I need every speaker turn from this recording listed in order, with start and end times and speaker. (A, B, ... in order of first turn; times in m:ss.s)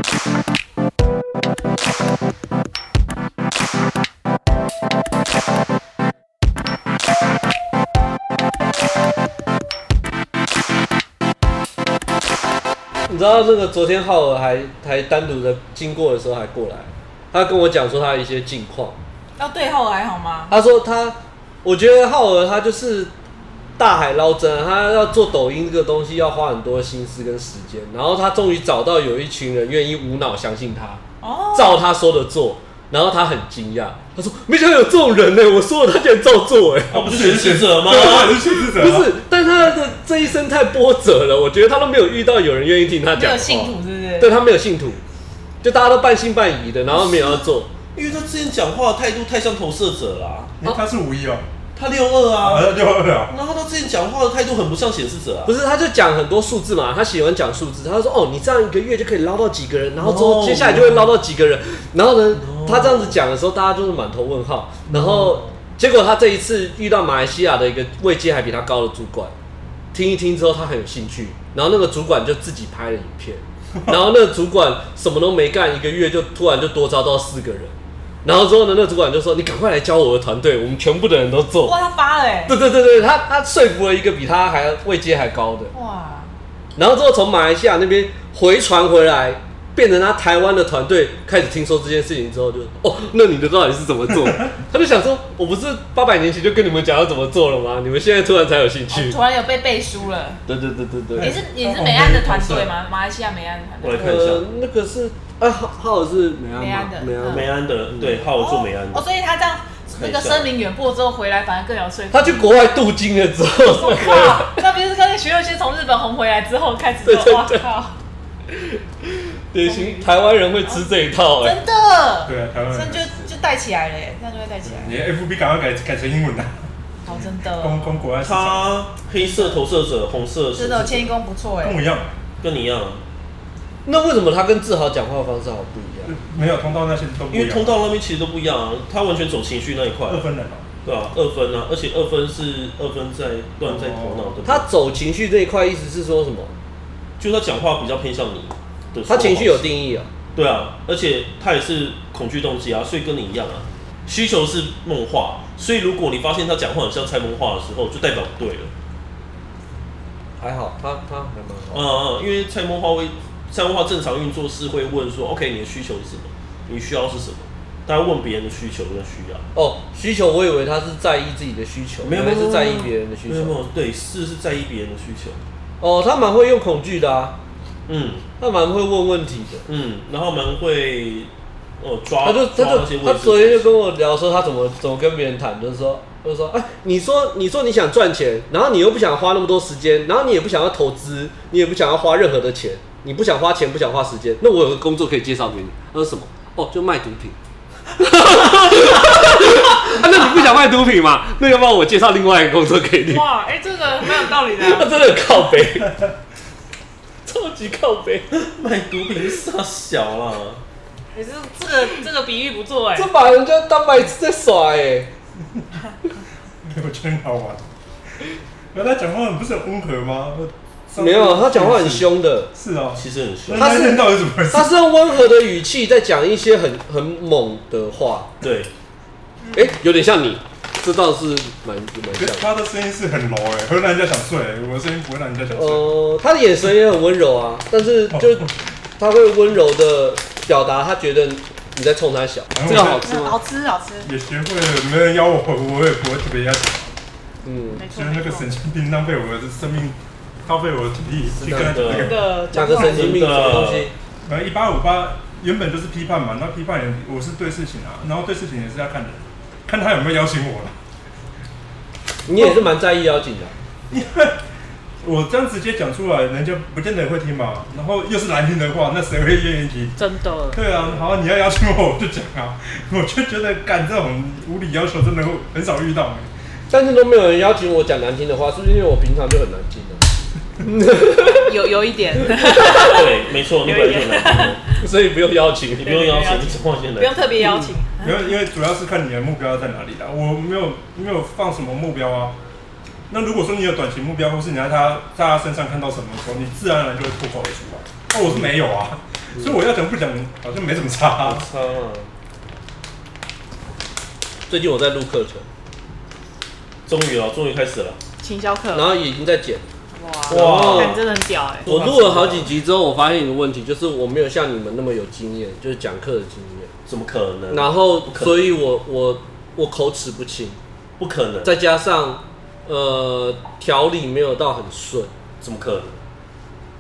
0:13.1-0:19.0 A
0:19.4-0:20.5 B
0:20.5-0:23.1 A
0:23.8-0:31.0 A
0:31.2-0:31.8 B
0:31.5-0:37.1 A
0:36.9-0:38.4 C
0:36.9-0:39.1 D
0:37.9-0:45.0 A
0:43.1-0:44.3 B
0:45.6-0:47.7 A
0:46.9-0:50.5 C
0:50.6-0:51.5 D
0:51.7-0:52.7 C
0:52.4-0:53.3 D
0:53.3-0:55.5 C
0:55.4-1:09.3 A
1:00.0-1:01.1 C
1:02.3-1:03.2 C
1:04.9-1:05.5 C
1:09.9-1:21.7 A
1:21.6-1:22.5 B
1:22.5-1:25.7 A
1:25.7-1:26.3 B
1:26.8-1:39.2 A
1:38.9-1:40.4 B
1:40.4-1:41.3 C
1:41.1-1:42.7 D
1:41.2-1:44.1 B
1:43.8-1:44.4 C
1:44.0-1:48.2 A
1:46.6-1:47.5 B
1:47.2-1:49.0 C
1:48.2-1:52.6 B
1:49.9-1:50.5 C
1:52.1-1:54.6 A
1:53.6-1:58.0 B
1:57.0-1:57.7 A
1:58.5-2:01.6 A
1:59.6-2:05.0 B
2:02.2-2:03.3 D
2:04.6-2:08.8 D
2:07.0-2:07.8 B
2:08.2-2:11.1 C
2:09.1-2:09.6 B
2:10.5-2:11.8 B
2:11.6-2:12.2 D
2:12.4-2:13.0 C
2:13.8-2:16.1 A
2:16.0-2:17.8 D
2:17.3-2:20.2 C
2:20.1-2:20.6 D
2:20.8-2:24.7 C
2:23.6-2:24.4 D
2:24.4-2:26.5 A
2:27.2-2:29.7 C
2:29.1-2:30.1 A
2:30.3-2:38.7 C
2:40.4-2:41.8 A
2:41.7-2:49.4 C
2:49.5-2:53.6 A
2:52.0-2:55.4 C
2:55.8-2:57.4 A
2:57.9-2:58.2 C
2:58.4-2:59.6 A
2:59.6-3:03.8 C
3:02.2-3:17.4 A
3:18.0-3:23.3 A
3:23.1-3:25.2 B
3:24.3-3:25.9 A
3:27.2-3:28.3 A
3:28.3-3:30.6 C
3:31.1-3:33.1 B
3:32.9-3:35.1 A
3:36.6-3:37.7 D
3:38.7-3:44.7 D
3:41.0-3:42.5 A
3:43.0-3:43.7 C
3:43.6-3:48.3 A
3:48.4-3:48.7 C
3:49.4-3:49.7 B
3:49.5-3:52.5 A
3:52.2-3:56.0 D
3:55.5-4:03.4 A
3:58.1-3:58.5 D
4:02.5-4:03.0 D
4:03.0-4:04.1 B
4:04.0-4:06.9 D
4:07.4-4:07.8 A
4:07.8-4:08.5 B
4:07.9-4:12.3 D
4:11.3-4:13.9 A
4:11.6-4:12.2 C
4:12.0-4:13.3 B
4:12.7-4:13.9 C
4:14.2-4:20.7 D
4:22.2-4:23.5 A
4:23.9-4:24.4 D
4:25.0-4:30.0 D
4:30.0-4:30.6 B
4:30.5-4:36.3 D
4:30.8-4:31.1 A
4:36.7-4:40.0 A
4:40.6-4:41.5 A
4:41.4-4:44.7 B
4:42.2-4:43.0 A
4:42.8-4:44.6 C
4:44.7-4:46.0 A
4:45.8-4:47.3 C
4:45.8-4:48.2 B
4:47.4-4:47.7 A
4:48.0-4:52.4 D
4:53.1-5:01.4 D
5:01.2-5:02.1 C
5:04.5-5:05.4 A
5:06.8-5:08.0 C
5:08.2-5:08.9 B
5:08.7-5:09.6 A
5:10.0-5:11.7 B
5:10.3-5:11.0 A
5:10.3-5:11.0 C
5:11.6-5:16.7 A
5:11.6-5:12.5 C
5:16.8-5:18.5 C
5:17.5-5:20.6 A
5:21.0-5:21.5 C
5:21.4-5:25.1 A
5:25.4-5:26.0 C